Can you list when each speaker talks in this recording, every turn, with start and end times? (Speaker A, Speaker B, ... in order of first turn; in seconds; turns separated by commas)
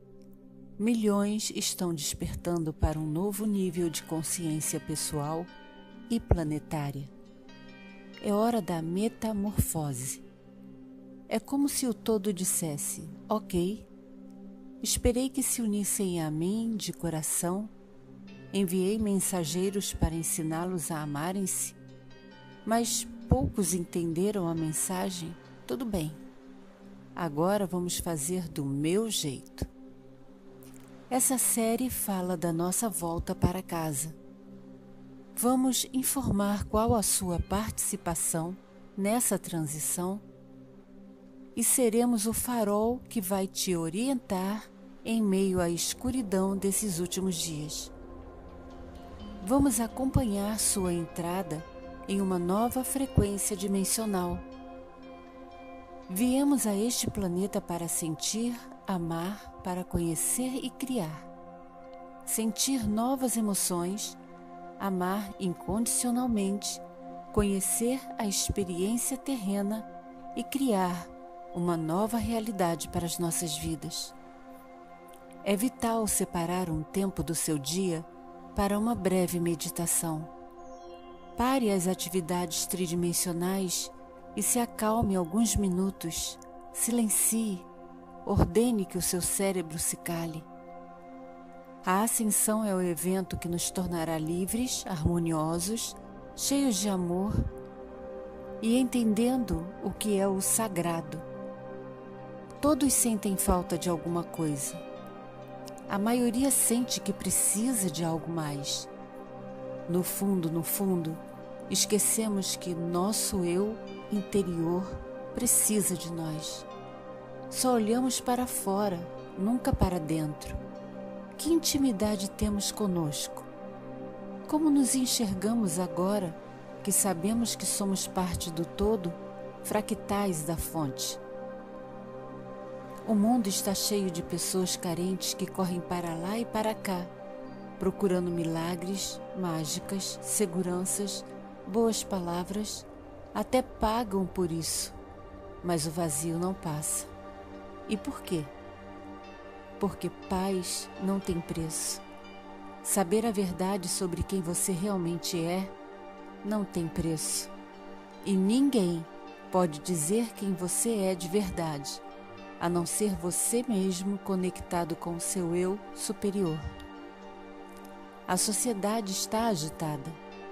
Speaker A: 0.8-5.5, Speaker A: 6.1-7.1, Speaker A: 8.2-10.3, Speaker A: 11.3-13.9, Speaker A: 14.8-17.7, Speaker A: 18.5-21.8, Speaker A: 22.6-26.2, Speaker A: 27.1-29.7, Speaker A: 31.1-34.2, Speaker A: 35.4-40.2, Speaker A: 41.5-47.9, Speaker A: 49.4-54.5, Speaker A: 56.1-61.3, Speaker A: 62.2-64.2, Speaker A: 64.8-74.2, Speaker A: 75.4-80.3, Speaker A: 81.4-87.7, Speaker A: 88.2-90.5, Speaker A: 91.8-97.5, Speaker A: 98.6-101.3, Speaker A: 102.6-104.8, Speaker A: 105.9-108.9, Speaker A: 109.9-116.7, Speaker A: 117.5-120.6, Speaker A: 121.4-123.5, Speaker A: 124.5-131.2, Speaker A: 133.0-137.1, Speaker A: 137.8-145.0, Speaker A: 145.6-147.1, Speaker A: 147.9-148.5, Speaker A: 149.8-152.0, Speaker A: 152.8-155.7, Speaker A: 156.4-157.5, Speaker A: 158.2-162.0, Speaker A: 162.6-166.7, Speaker A: 168.3-170.2